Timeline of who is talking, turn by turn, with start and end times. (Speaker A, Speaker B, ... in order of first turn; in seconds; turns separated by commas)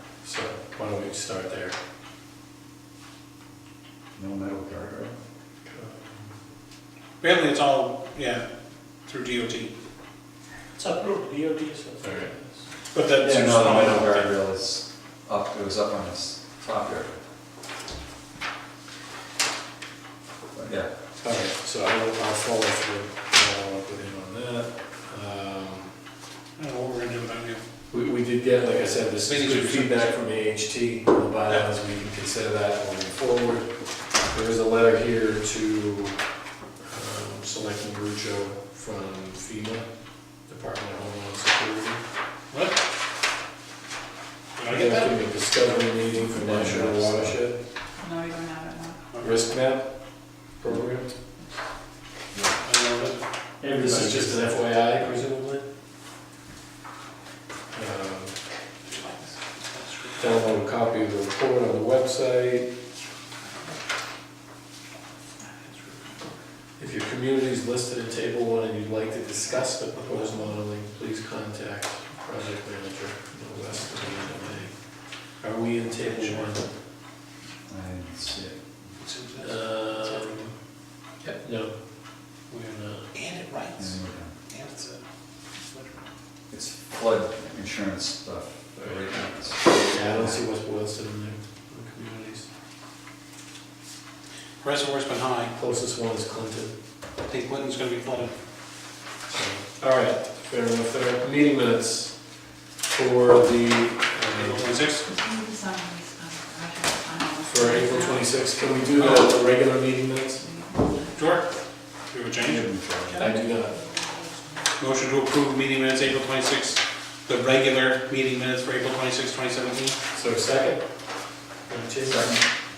Speaker A: 0.2-1.8, Speaker B: 4.2-5.2, Speaker A: 5.7-6.3, Speaker C: 7.2-8.4, Speaker C: 9.0-9.7, Speaker D: 10.8-12.6, Speaker A: 12.0-12.3, Speaker C: 12.9-14.3, Speaker B: 13.2-17.2, Speaker B: 20.5-20.9, Speaker A: 21.2-25.9, Speaker C: 26.6-27.6, Speaker A: 27.9-36.2, Speaker C: 29.2-30.1, Speaker A: 36.8-39.9, Speaker A: 40.5-42.0, Speaker C: 44.5-45.1, Speaker A: 44.7-47.6, Speaker B: 46.3-47.4, Speaker E: 48.0-49.0, Speaker A: 49.2-51.1, Speaker C: 52.6-53.2, Speaker D: 53.6-54.5, Speaker A: 53.8-55.6, Speaker A: 57.7-58.3, Speaker C: 58.8-60.5, Speaker A: 60.2-62.7, Speaker A: 66.8-74.8, Speaker C: 69.9-70.5, Speaker A: 75.3-76.7, Speaker C: 75.9-76.5, Speaker B: 77.7-78.9, Speaker C: 79.0-80.5, Speaker A: 79.4-80.5, Speaker A: 81.2-81.7, Speaker A: 82.5-83.1, Speaker C: 83.1-85.0, Speaker B: 83.8-84.3, Speaker C: 85.6-86.0, Speaker B: 86.5-90.4, Speaker A: 89.8-92.5, Speaker C: 94.6-95.5, Speaker A: 95.5-96.7, Speaker C: 97.2-98.3, Speaker A: 99.2-102.2, Speaker A: 102.9-104.7, Speaker C: 104.3-105.0, Speaker E: 105.1-108.2, Speaker A: 107.5-110.4, Speaker C: 109.0-109.3, Speaker E: 110.4-111.1, Speaker C: 111.1-111.5, Speaker C: 112.0-113.2, Speaker B: 112.4-113.2, Speaker A: 113.2-113.8, Speaker C: 114.8-120.0, Speaker A: 120.1-120.8, Speaker A: 121.7-122.4, Speaker B: 122.1-122.4